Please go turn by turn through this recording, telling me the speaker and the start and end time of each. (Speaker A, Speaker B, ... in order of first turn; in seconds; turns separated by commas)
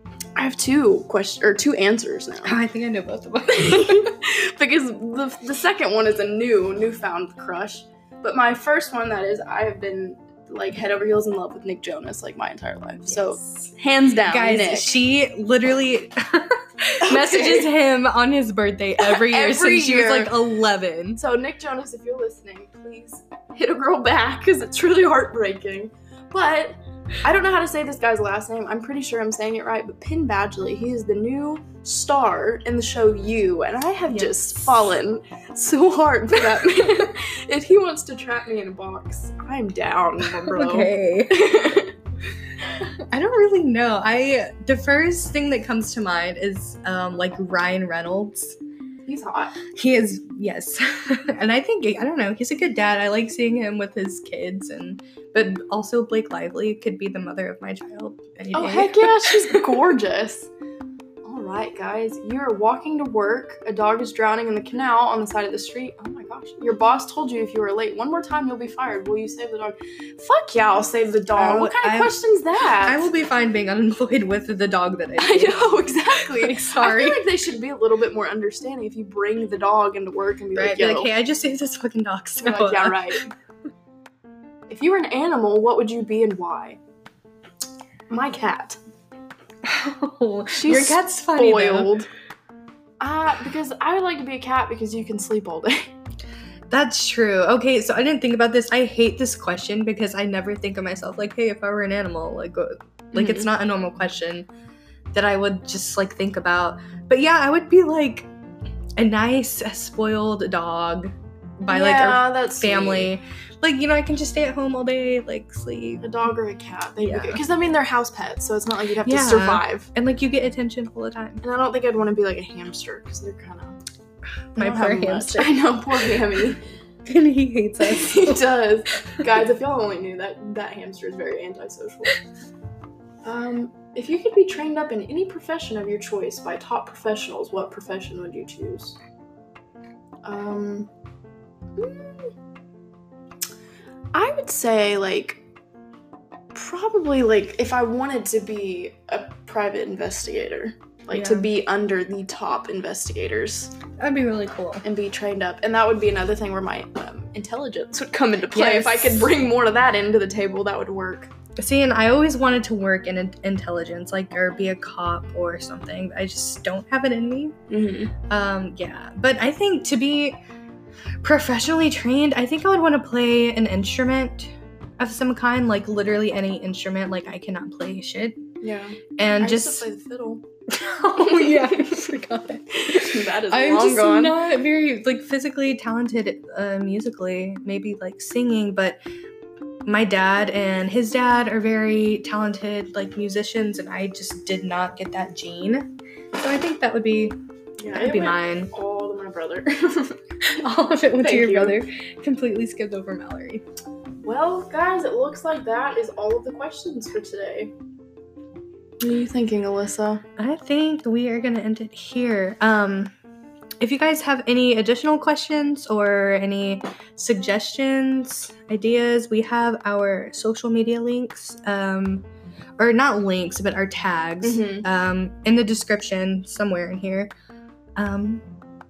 Speaker A: 0.3-2.5, Speaker B: 2.4-4.1, Speaker A: 3.5-14.9, Speaker B: 13.1-13.4, Speaker B: 14.3-21.2, Speaker A: 17.0-17.7, Speaker A: 19.0-20.4, Speaker A: 21.1-41.9, Speaker B: 34.1-34.9, Speaker B: 40.2-41.7, Speaker B: 43.0-48.6, Speaker A: 49.0-49.6, Speaker B: 49.7-59.8, Speaker A: 58.5-60.5, Speaker A: 61.2-73.1, Speaker B: 71.3-72.2, Speaker B: 72.8-77.2, Speaker A: 75.2-81.1, Speaker B: 80.5-83.2, Speaker A: 82.4-83.3, Speaker A: 84.7-86.8, Speaker A: 88.1-88.8, Speaker B: 89.6-91.9, Speaker A: 90.5-92.1, Speaker A: 93.0-95.9, Speaker B: 96.7-104.5, Speaker A: 103.1-103.5, Speaker B: 105.1-108.3, Speaker B: 109.0-116.0, Speaker A: 111.7-113.1, Speaker A: 116.0-119.9, Speaker B: 117.0-117.4, Speaker B: 119.0-121.4, Speaker A: 121.4-123.8, Speaker B: 124.5-126.1, Speaker A: 124.6-126.6, Speaker B: 127.0-128.4, Speaker A: 127.8-132.2, Speaker A: 133.2-139.0, Speaker A: 140.2-140.9, Speaker A: 141.8-142.3, Speaker A: 144.1-145.4, Speaker A: 146.5-153.7, Speaker B: 151.1-151.5, Speaker B: 154.0-154.8, Speaker A: 154.8-161.3, Speaker B: 158.5-159.3, Speaker B: 161.6-167.6, Speaker A: 167.7-168.1, Speaker B: 168.3-170.4, Speaker B: 171.2-178.4, Speaker A: 178.6-180.4, Speaker B: 179.2-179.8, Speaker B: 180.7-189.0, Speaker A: 181.2-182.0, Speaker A: 182.7-184.4, Speaker B: 189.8-197.4, Speaker A: 197.8-200.2, Speaker B: 197.9-198.7, Speaker B: 200.5-203.6, Speaker A: 201.2-201.8, Speaker A: 204.2-207.7, Speaker A: 209.0-210.2, Speaker B: 210.4-213.1, Speaker B: 213.8-222.2, Speaker B: 222.8-227.3, Speaker A: 224.4-224.8, Speaker B: 227.9-228.4